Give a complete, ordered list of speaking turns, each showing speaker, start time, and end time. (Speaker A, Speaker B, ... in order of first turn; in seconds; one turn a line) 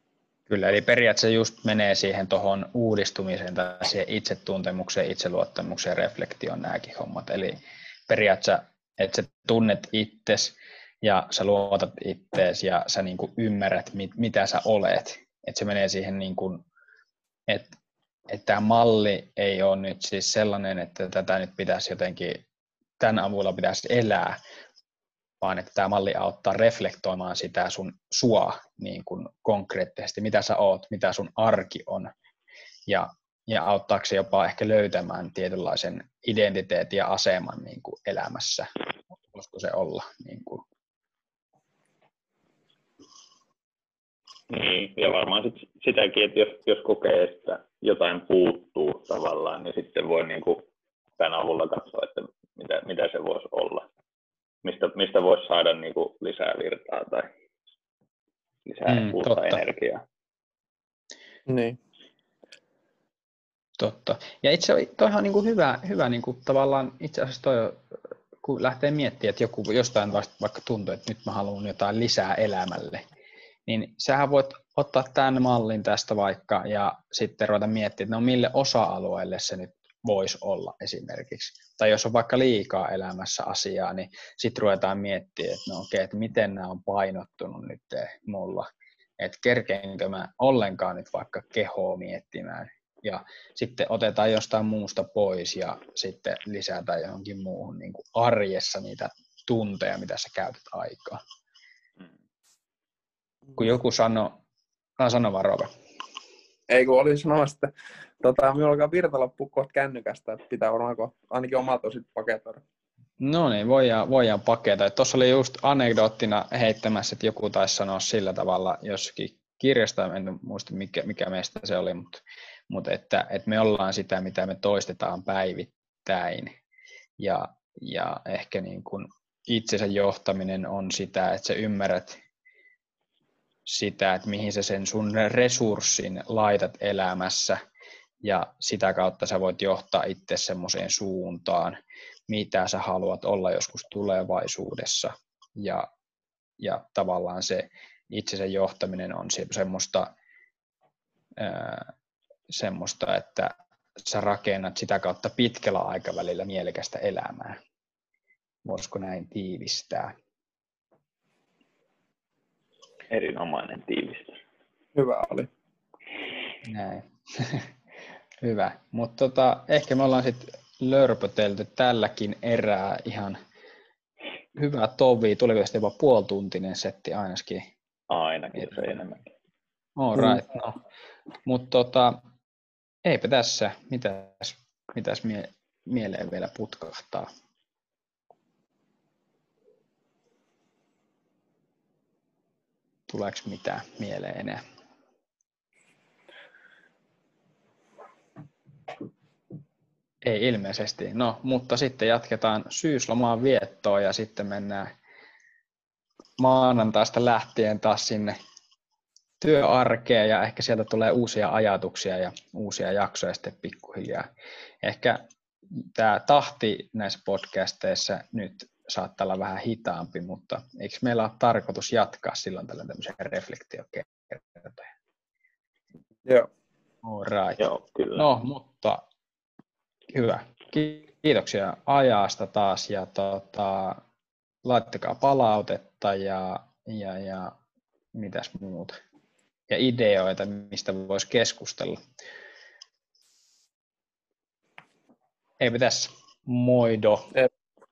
Speaker A: 0.5-16.6
Speaker A: 17.5-17.7
Speaker A: 18.3-22.4
Speaker A: 23.0-24.4
Speaker A: 25.4-32.1
Speaker A: 32.9-38.7
Speaker A: 39.3-40.6
Speaker B: 44.5-50.7
Speaker B: 51.2-53.9
Speaker B: 54.6-57.3
Speaker B: 58.7-60.0
Speaker A: 58.9-59.6
Speaker C: 61.5-61.8
Speaker A: 63.8-73.0
Speaker A: 73.7-88.7
Speaker A: 89.2-101.2
Speaker A: 103.6-104.4
Speaker A: 105.0-105.7
Speaker C: 106.7-112.6
Speaker A: 113.2-126.5
Speaker A: 127.2-132.2
Speaker A: 133.7-137.6
Speaker A: 138.2-145.9
Speaker A: 146.6-150.1
Speaker A: 151.4-151.9
Speaker A: 152.5-157.6
Speaker A: 158.7-160.1
Speaker B: 163.1-164.4
Speaker C: 164.9-165.5
Speaker A: 166.6-167.7
Speaker A: 168.4-173.4
Speaker A: 174.6-177.7
Speaker B: 178.1-179.3
Speaker A: 180.0-180.8
Speaker A: 181.5-182.2
Speaker A: 183.0-187.3
Speaker A: 193.1-194.6
Speaker A: 200.2-204.9
Speaker A: 206.4-208.4
Speaker A: 209.4-214.3
Speaker A: 214.8-224.9
Speaker A: 227.0-227.7
Speaker B: 227.6-228.3
Speaker A: 228.2-229.0
Speaker A: 230.1-234.0
Speaker A: 234.6-237.6
Speaker A: 238.1-239.0
Speaker A: 239.7-242.0
Speaker A: 245.6-247.3